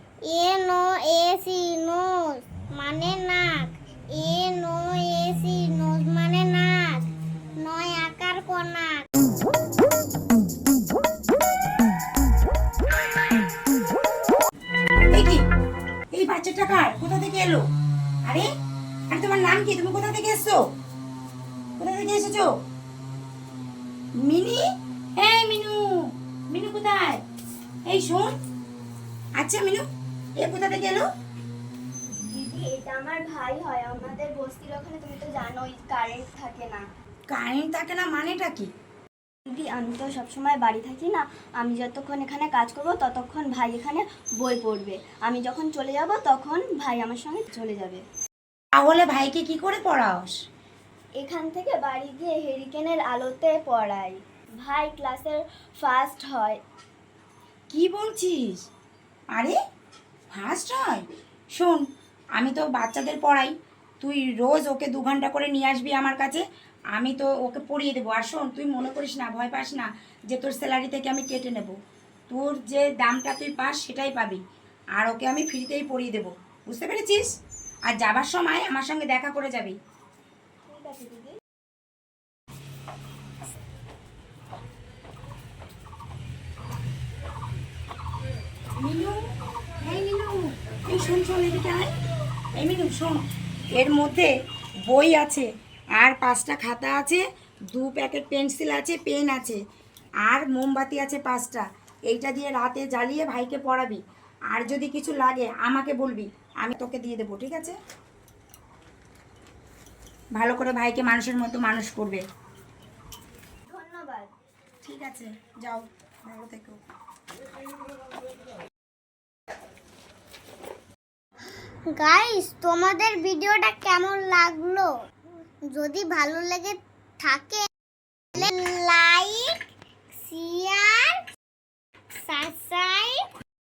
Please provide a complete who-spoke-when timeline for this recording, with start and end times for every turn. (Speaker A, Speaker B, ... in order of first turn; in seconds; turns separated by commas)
Speaker A: 0.2-7.0, Speaker A: 7.6-9.0, Speaker B: 15.1-15.4, Speaker B: 16.1-17.6, Speaker B: 19.1-20.6, Speaker B: 21.8-22.5, Speaker B: 24.2-24.6, Speaker B: 25.2-25.9, Speaker B: 26.5-27.2, Speaker B: 27.9-28.3, Speaker B: 29.4-29.8, Speaker B: 30.4-31.1, Speaker C: 32.3-36.8, Speaker B: 37.3-38.7, Speaker C: 39.5-48.0, Speaker B: 48.8-50.3, Speaker C: 51.2-56.6, Speaker B: 57.7-58.6, Speaker B: 60.3-61.8, Speaker B: 62.4-71.7, Speaker B: 72.3-74.4, Speaker B: 75.0-77.3, Speaker B: 77.8-79.8, Speaker C: 80.7-81.4, Speaker B: 88.8-89.2, Speaker B: 89.8-91.9, Speaker B: 92.5-93.2, Speaker B: 93.7-94.3, Speaker B: 94.9-99.6, Speaker B: 100.2-104.0, Speaker B: 104.5-107.8, Speaker B: 110.3-112.2, Speaker C: 113.7-114.3, Speaker B: 114.8-116.8, Speaker A: 121.9-124.9, Speaker A: 125.7-127.6, Speaker A: 128.3-129.5, Speaker A: 130.1-131.2, Speaker A: 132.2-133.2